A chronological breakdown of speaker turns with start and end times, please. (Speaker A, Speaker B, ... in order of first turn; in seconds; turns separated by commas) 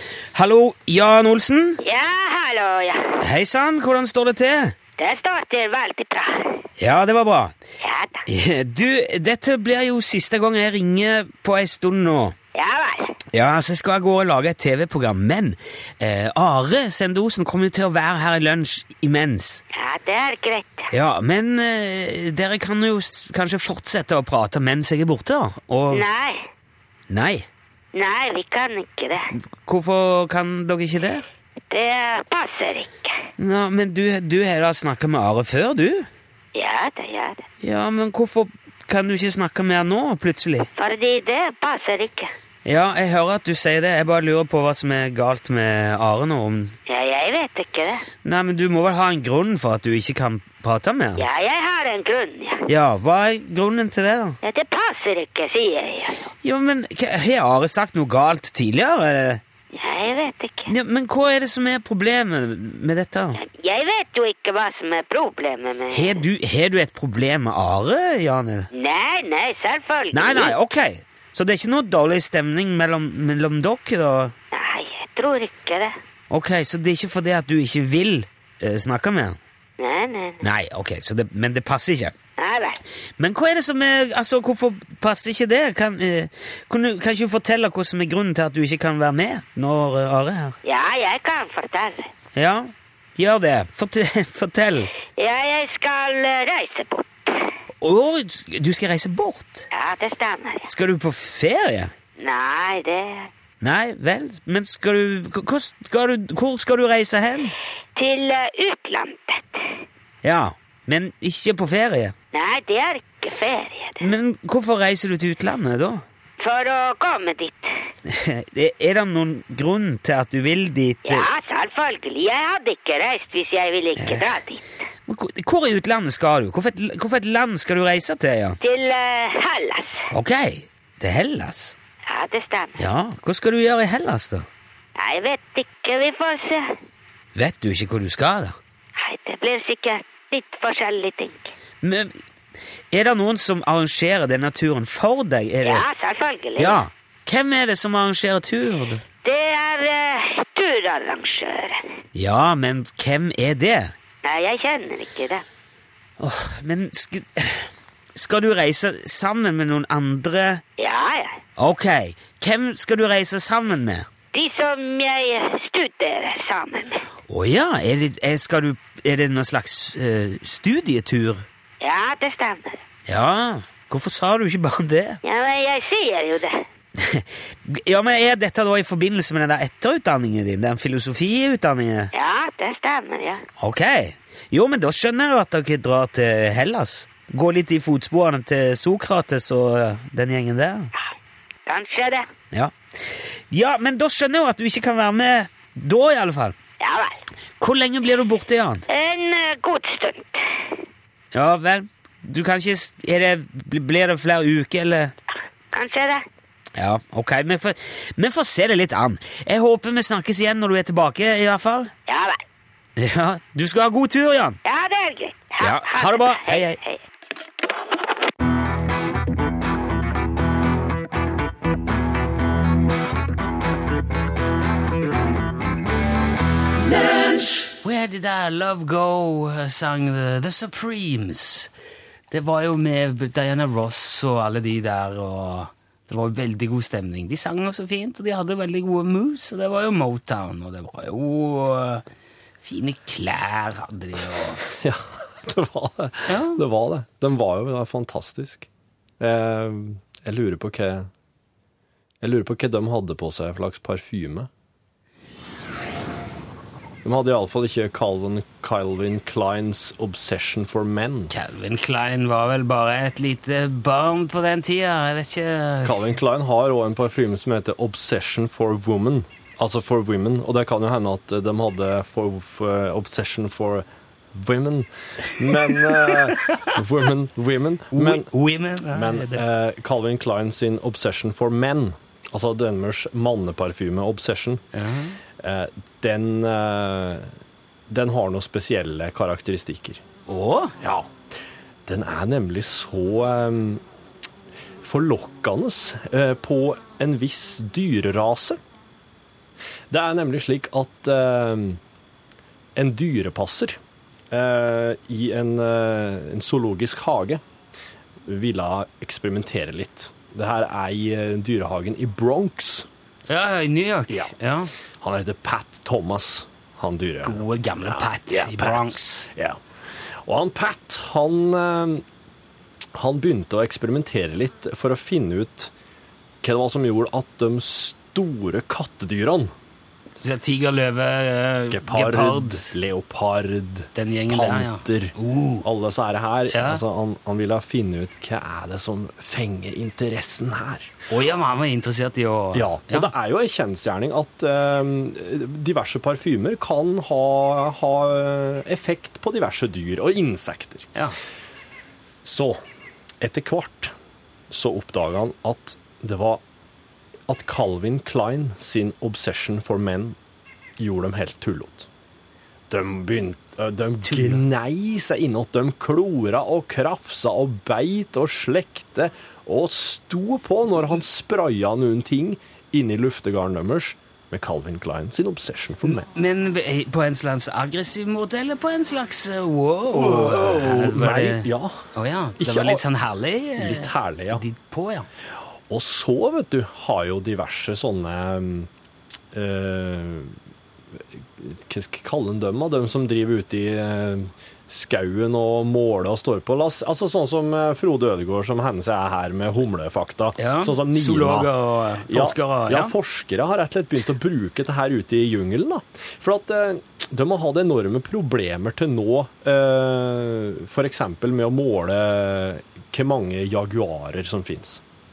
Speaker A: 0.3-1.8, Speaker B: 1.8-3.2, Speaker A: 3.2-4.8, Speaker B: 5.0-6.6, Speaker A: 6.8-7.5, Speaker B: 7.8-8.2, Speaker A: 8.3-12.3, Speaker B: 12.6-13.2, Speaker A: 13.3-19.6, Speaker B: 19.7-20.9, Speaker A: 20.9-26.1, Speaker B: 25.9-26.4, Speaker A: 27.1-27.5, Speaker B: 27.9-29.3, Speaker A: 29.6-31.2, Speaker B: 31.7-33.2, Speaker A: 33.4-36.1, Speaker B: 36.5-37.5, Speaker A: 37.6-40.7, Speaker B: 40.8-42.3, Speaker A: 42.6-46.8, Speaker B: 46.9-48.0, Speaker A: 48.2-51.2, Speaker B: 51.2-52.7, Speaker A: 52.7-54.4, Speaker B: 54.4-56.3, Speaker A: 56.4-59.4, Speaker B: 59.7-60.7, Speaker A: 60.7-63.4, Speaker B: 63.4-66.2, Speaker A: 65.9-68.7, Speaker B: 68.7-70.5, Speaker A: 70.1-74.3, Speaker B: 74.5-76.0, Speaker A: 76.3-79.4, Speaker B: 79.8-80.4, Speaker A: 80.4-82.1, Speaker B: 82.4-82.8, Speaker A: 83.2-90.6, Speaker B: 90.6-92.1, Speaker A: 92.3-94.9, Speaker B: 95.2-97.5, Speaker A: 97.8-99.7, Speaker B: 99.7-100.7, Speaker A: 100.6-101.9, Speaker B: 102.2-103.3, Speaker A: 103.6-107.5, Speaker B: 108.0-109.7, Speaker A: 110.2-112.1, Speaker B: 112.3-114.1, Speaker A: 114.0-116.0, Speaker B: 116.4-117.7, Speaker A: 118.1-121.3, Speaker B: 121.0-124.7, Speaker A: 124.0-124.3, Speaker A: 125.1-128.6, Speaker B: 128.6-130.0, Speaker A: 130.1-131.8, Speaker B: 132.1-132.8, Speaker A: 132.8-134.5, Speaker B: 135.0-136.8, Speaker A: 137.3-138.6, Speaker B: 139.0-141.5, Speaker A: 141.8-142.1, Speaker A: 142.9-145.8, Speaker B: 145.6-146.8, Speaker A: 146.6-149.0, Speaker B: 149.2-151.9, Speaker A: 152.2-153.9, Speaker B: 154.2-155.4, Speaker A: 156.2-160.6, Speaker B: 160.8-161.4, Speaker A: 161.6-164.1, Speaker B: 164.3-167.1, Speaker A: 167.3-171.4, Speaker B: 171.8-172.8, Speaker A: 173.1-175.2, Speaker B: 175.2-176.7, Speaker A: 177.0-182.1, Speaker B: 182.1-183.4, Speaker A: 183.6-190.9, Speaker B: 191.7-192.3, Speaker A: 192.5-196.6, Speaker B: 196.8-197.2, Speaker A: 197.6-198.8, Speaker B: 198.9-200.7, Speaker A: 201.3-205.1, Speaker B: 205.7-206.2, Speaker A: 206.8-211.9, Speaker B: 212.1-212.4, Speaker A: 213.0-214.6, Speaker B: 214.7-217.0, Speaker A: 215.6-216.8, Speaker A: 227.8-231.7, Speaker A: 232.3-242.0, Speaker A: 242.6-244.7, Speaker C: 244.7-248.7, Speaker A: 246.3-246.6, Speaker C: 249.2-251.1, Speaker C: 252.2-254.5, Speaker C: 257.0-261.3, Speaker A: 261.3-266.1, Speaker C: 265.8-278.3, Speaker A: 275.7-276.7, Speaker A: 277.9-279.4, Speaker C: 278.9-284.6, Speaker A: 284.7-285.2, Speaker C: 285.4-287.3, Speaker C: 287.9-290.0, Speaker A: 290.3-290.8, Speaker C: 290.8-291.1, Speaker C: 291.9-293.8, Speaker C: 294.8-298.6, Speaker C: 299.9-301.8, Speaker C: 302.8-303.8, Speaker C: 304.3-307.4, Speaker C: 308.2-312.9, Speaker A: 313.3-314.7, Speaker C: 315.0-319.6, Speaker A: 317.2-319.3, Speaker C: 320.2-322.1, Speaker C: 322.9-325.7, Speaker C: 326.4-329.5, Speaker A: 330.2-332.7, Speaker C: 331.7-340.9, Speaker A: 333.9-335.6, Speaker A: 336.5-336.8, Speaker A: 341.1-343.1, Speaker C: 342.5-350.9, Speaker C: 352.2-352.6, Speaker C: 353.2-353.9, Speaker C: 354.5-356.4, Speaker C: 357.3-360.2, Speaker C: 360.8-361.9, Speaker C: 362.7-376.1, Speaker A: 364.1-364.4, Speaker A: 375.9-385.1, Speaker C: 379.9-381.9, Speaker C: 382.4-382.8, Speaker C: 383.6-384.4, Speaker C: 385.7-388.7, Speaker C: 389.3-390.4, Speaker C: 391.0-401.5, Speaker A: 400.4-402.9, Speaker C: 402.1-414.8